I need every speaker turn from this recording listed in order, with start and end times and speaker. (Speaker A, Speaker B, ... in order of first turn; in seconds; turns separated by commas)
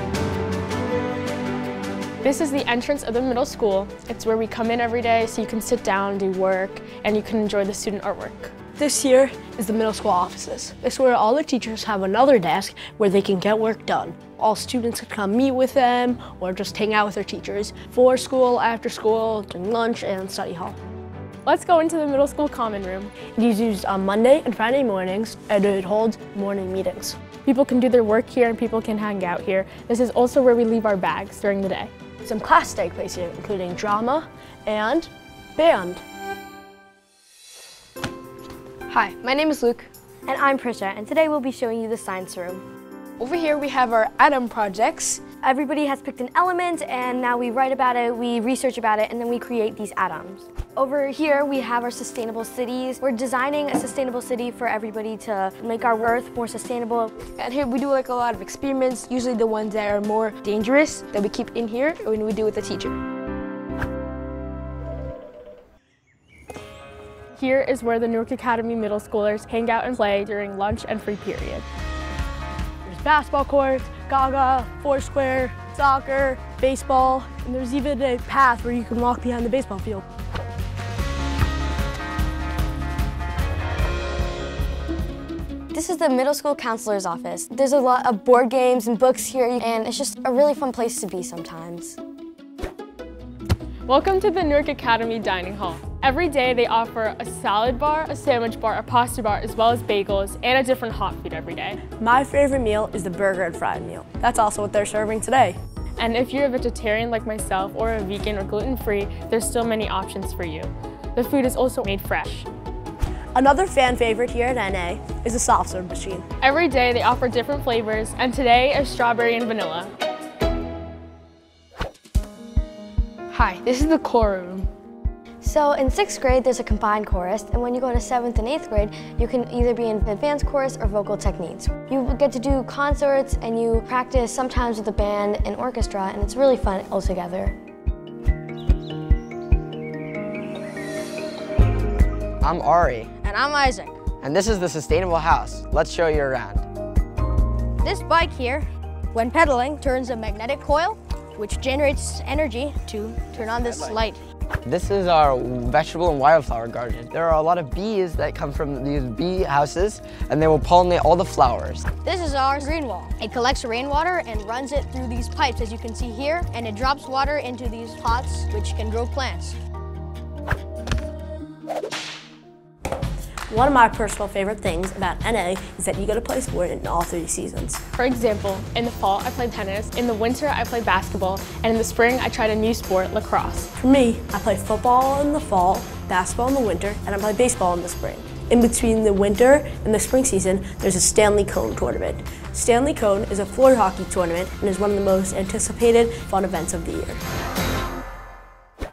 Speaker A: 2.2-8.5, Speaker B: 8.8-20.8, Speaker A: 21.4-23.1, Speaker B: 23.4-27.2, Speaker A: 27.4-31.9, Speaker B: 32.2-36.0, Speaker C: 38.9-39.9, Speaker D: 40.3-42.6, Speaker C: 43.2-45.3, Speaker D: 45.4-57.2, Speaker C: 57.3-63.0, Speaker A: 67.3-71.7, Speaker B: 72.9-80.1, Speaker D: 85.7-92.0, Speaker A: 93.9-101.8, Speaker B: 102.0-105.6, Speaker A: 106.0-112.5, Speaker B: 113.3-116.3, Speaker A: 116.4-119.9, Speaker C: 123.3-124.7, Speaker D: 125.4-137.6, Speaker E: 142.4-143.1, Speaker F: 143.2-143.9, Speaker E: 144.2-146.7, Speaker F: 147.8-154.2, Speaker E: 154.7-161.9, Speaker F: 162.0-169.6, Speaker B: 173.5-177.8, Speaker A: 178.0-183.7, Speaker B: 183.8-197.2